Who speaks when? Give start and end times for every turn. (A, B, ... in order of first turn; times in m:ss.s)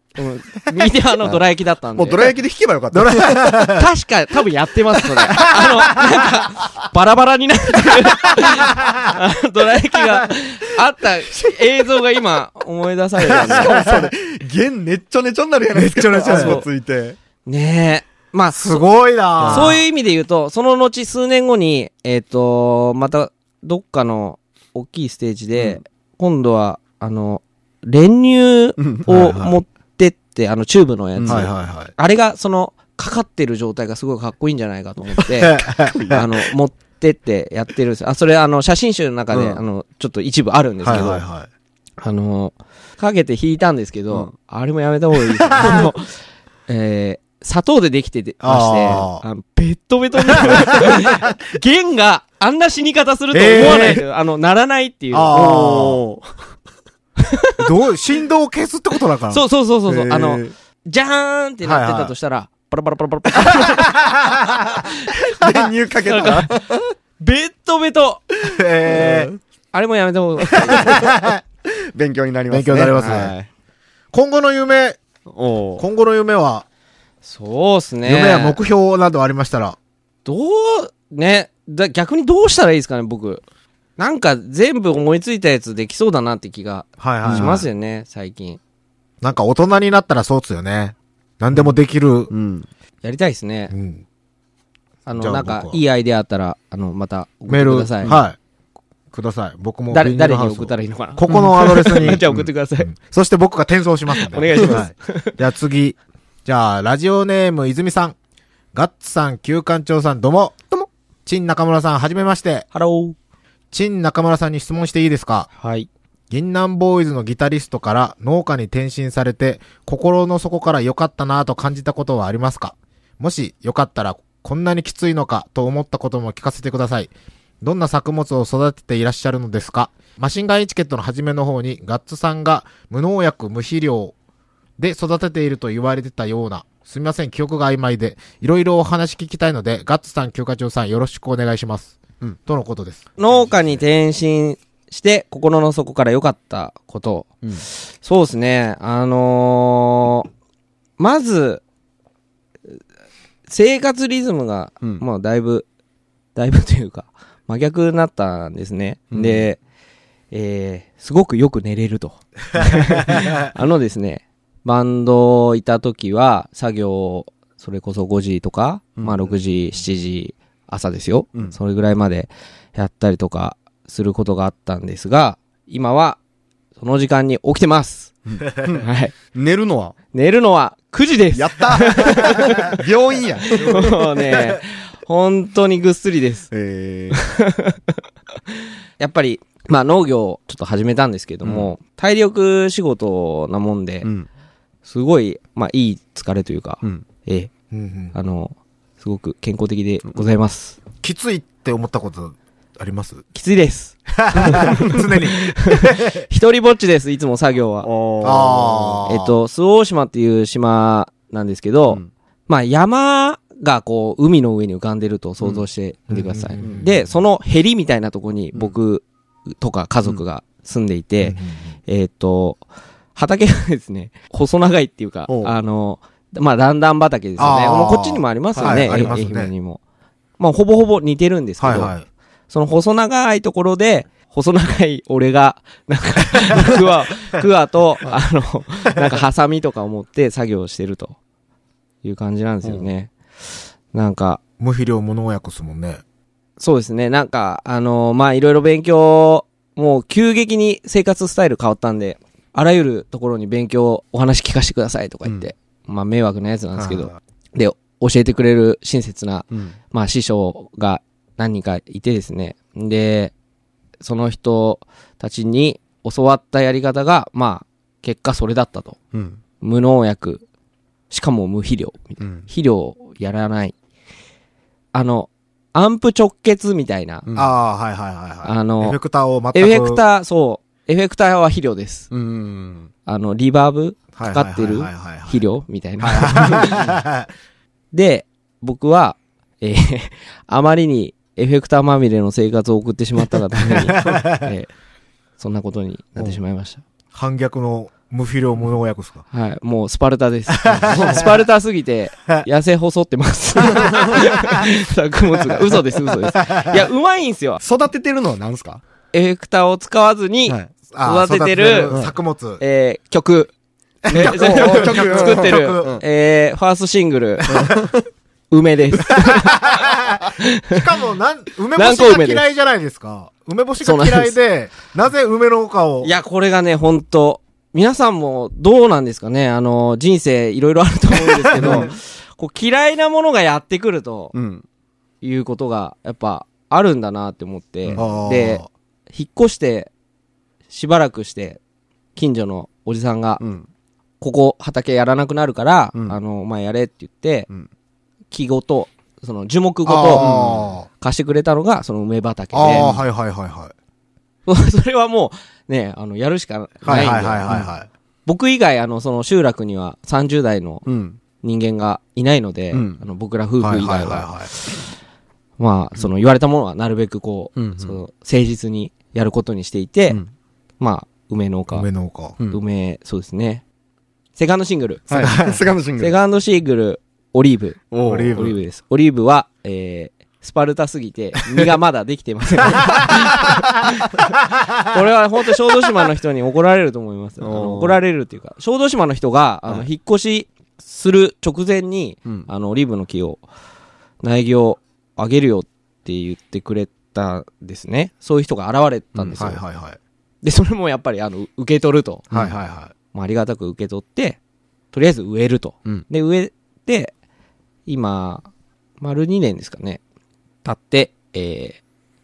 0:00.2-0:02.3 A
0:02.0-0:03.7 B
0:02.9-0:03.9 C
0:03.6-0:13.8 A
0:05.3-0:06.1 C
0:08.7-0:09.1 C
0:13.3-0:14.1 C
0:13.3-0:17.2 B
0:15.8-0:16.6 C
0:16.2-0:16.6 A
0:17.4-0:18.8 A
0:18.5-0:19.8 C
0:19.4-0:19.8 B
0:19.4-0:41.2 A
0:28.8-0:29.1 B
0:29.1-0:29.5 C
0:31.2-0:31.5 B
0:31.2-0:31.9 C
0:35.4-0:36.1 C
0:35.9-0:36.2 B
0:39.3-0:39.6 B
0:40.8-0:41.5 C
0:42.0-0:46.2 A
0:45.5-0:45.8 C
0:46.7-0:55.6 A
0:48.4-0:49.2 C
0:50.4-0:51.3 C
0:53.3-0:54.0 C
0:55.1-0:56.0 C
0:55.3-0:56.3 B
0:57.2-0:57.6 A
0:57.6-0:59.4 C
0:59.3-1:05.3 A
0:59.9-1:00.5 B
1:01.6-1:02.1 C
1:03.4-1:04.6 C
1:05.3-1:06.9 B
1:06.0-1:06.6 A
1:07.2-1:08.2 A
1:08.4-1:09.4 B
1:08.4-1:09.3 C
1:09.7-1:11.0 A
1:10.6-1:11.4 C
1:10.7-1:11.1 B
1:11.8-1:13.5 B
1:12.5-1:13.3 C
1:12.9-1:13.2 A
1:14.1-1:15.0 C
1:15.3-1:15.8 B
1:15.8-1:16.6 C
1:17.2-1:18.6 A
1:18.0-1:19.8 C
1:20.2-1:23.4 A
1:24.0-1:28.6 A
1:27.0-1:27.7 C
1:29.2-1:32.3 C
1:32.3-1:32.7 B
1:33.0-1:33.7 A
1:33.7-1:34.0 C
1:35.0-1:38.2 A
1:35.2-1:35.8 C
1:37.5-1:38.4 C
1:39.1-1:48.2 C
1:39.9-1:42.9 A
1:41.3-1:42.2 B
1:44.1-1:45.4 A
1:48.7-1:50.6 C
1:51.2-1:52.6 C
1:52.7-1:53.2 A
1:53.7-1:55.5 C
1:55.6-1:55.9 A
1:56.3-2:14.1 C
2:14.8-2:23.8 C
2:23.2-2:30.3 A
2:31.0-2:31.6 A
2:33.5-2:35.6 A
2:36.3-2:39.6 A
2:39.1-2:39.5 B
2:40.3-2:56.2 A
2:49.0-2:49.3 B
2:56.8-2:58.1 A
2:58.2-3:00.0 B
2:58.7-2:59.1 A
3:00.1-3:02.8 A
3:01.3-3:04.0 B
3:03.5-3:06.5 A
3:06.5-3:07.2 B
3:07.1-3:08.0 A
3:09.0-3:14.1 A
3:11.4-3:11.7 B
3:14.8-3:17.5 A
3:17.7-3:18.1 C
3:18.1-3:20.8 A
3:21.0-3:23.2 C
3:23.3-3:27.9 A
3:24.1-3:26.2 C
3:27.8-3:29.0 B
3:28.2-3:29.3 C
3:29.1-3:39.0 A
3:36.1-3:37.0 C
3:36.6-3:36.9 B
3:39.6-3:42.6 A
3:41.2-3:41.7 C
3:43.1-3:49.8 A
3:45.3-3:45.5 B
3:47.4-3:49.5 C
3:48.6-3:49.1 B
3:50.4-3:51.9 A
3:51.6-3:52.0 C
3:52.5-4:01.2 A
4:02.0-4:03.1 A
4:03.9-4:04.4 A
4:04.6-4:06.0 C
4:06.6-4:23.3 A
4:16.8-4:17.1 C
4:24.0-4:29.0 A
4:29.1-4:29.4 B
4:29.6-4:30.4 A
4:31.1-4:33.7 A
4:32.2-4:32.5 B
4:34.9-4:37.2 A
4:37.2-4:37.5 B
4:37.3-4:40.0 C
4:38.4-4:39.0 A
4:39.5-4:42.1 A
4:42.1-4:42.9 B
4:43.0-4:46.9 A
4:44.1-4:45.4 C
4:46.0-4:47.3 C
4:47.9-4:54.7 A
4:53.9-4:54.5 C
4:55.4-4:56.8 A
4:57.1-4:59.2 C
4:59.3-5:07.6 A
5:00.5-5:01.2 C
5:00.7-5:01.3 B
5:03.7-5:04.1 B
5:06.4-5:06.8 C
5:07.6-5:08.8 B
5:09.1-5:11.9 A
5:10.9-5:12.6 C
5:11.9-5:12.1 B
5:12.6-5:13.5 A
5:14.0-5:16.0 C
5:14.1-5:17.5 A
5:14.1-5:16.0 B
5:17.4-5:17.9 C
5:17.5-5:18.0 B
5:18.5-5:20.7 A
5:19.1-5:26.1 C
5:21.8-5:22.4 A
5:23.8-5:24.3 A
5:26.0-5:34.3 A
5:31.2-5:31.9 C
5:31.5-5:31.9 B
5:34.3-5:34.6 B
5:35.2-5:39.9 A
5:38.0-5:38.7 C
5:40.7-5:41.6 A
5:42.2-5:43.4 A
5:43.4-5:43.7 B
5:44.2-5:47.5 A
5:48.3-5:50.3 A
5:49.8-5:50.9 C
5:50.2-5:50.7 B
5:51.0-5:52.9 A
5:52.5-5:53.7 C
5:52.7-5:53.0 B
5:54.5-5:57.5 A
5:56.8-5:57.9 C
5:58.2-6:00.8 A
6:00.8-6:01.2 B
6:01.4-6:04.8 A
6:02.7-6:03.0 B
6:03.6-6:04.5 C
6:05.6-6:10.2 A
6:07.6-6:08.0 B
6:10.8-6:11.9 A
6:11.7-6:12.3 C
6:12.5-6:13.6 A
6:14.4-6:15.3 A
6:15.1-6:16.1 B
6:15.2-6:15.6 C
6:16.0-6:24.3 A
6:17.9-6:18.5 B
6:18.0-6:18.5 C
6:24.6-6:24.8 C
6:24.8-6:33.4 A
6:27.4-6:28.0 B
6:34.2-6:39.6 A
6:39.1-6:39.5 B
6:39.4-6:40.0 C
6:40.4-6:42.3 A
6:42.3-6:42.9 C
6:43.1-6:44.4 A
6:44.9-6:47.1 A
6:47.9-6:48.5 A
6:49.0-6:50.0 A
6:50.6-6:51.8 A